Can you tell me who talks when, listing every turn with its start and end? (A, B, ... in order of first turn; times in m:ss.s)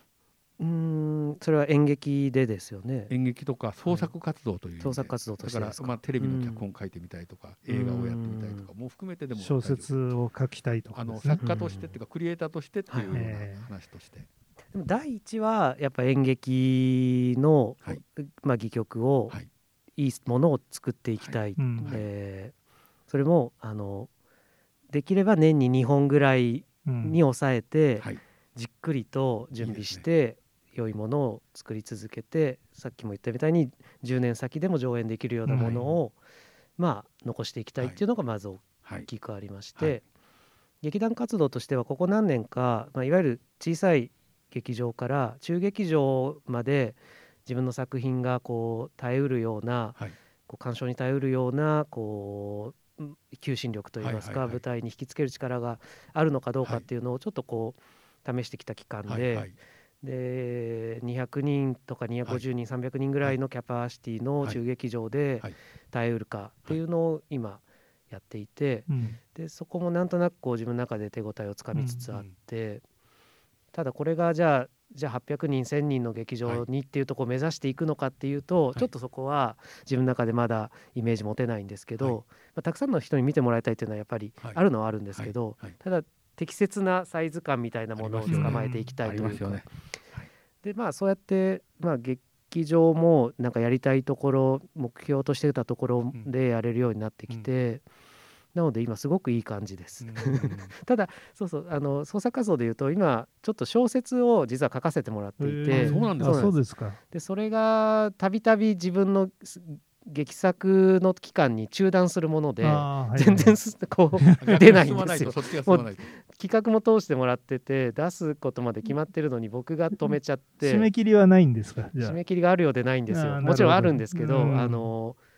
0:00.6-0:03.1 A
0:03.1-0:10.0 B
0:03.8-0:04.1 A
0:04.8-0:06.6 A
0:07.7-0:08.7 A
0:09.4-0:11.4 C
0:10.9-0:14.3 B
0:11.4-0:12.0 A
0:12.9-0:13.3 A
0:13.1-0:13.7 C
0:14.7-0:19.4 A
0:20.0-0:22.5 A
0:21.2-0:22.1 B
0:21.6-0:21.9 C
0:23.1-0:24.1 A
0:24.9-0:36.2 A
0:26.9-0:27.2 C
0:29.6-0:30.1 B
0:35.5-0:36.0 C
0:36.8-0:40.0 A
0:39.8-0:40.0 B
0:40.8-1:12.8 A
0:54.0-0:54.6 B
0:59.1-0:59.6 B
1:08.9-1:09.2 C
1:11.7-1:12.1 C
1:13.7-1:29.7 A
1:24.4-1:25.8 B
1:28.0-1:30.3 B
1:28.3-1:29.0 C
1:30.6-1:37.8 A
1:38.5-1:46.6 A
1:40.0-1:40.7 B
1:45.4-1:47.0 C
1:45.7-1:46.5 B
1:47.1-2:00.9 A
1:52.6-1:53.6 C
1:54.4-1:56.1 B
2:00.6-2:02.2 C
2:02.0-2:05.2 A
2:03.1-2:04.9 C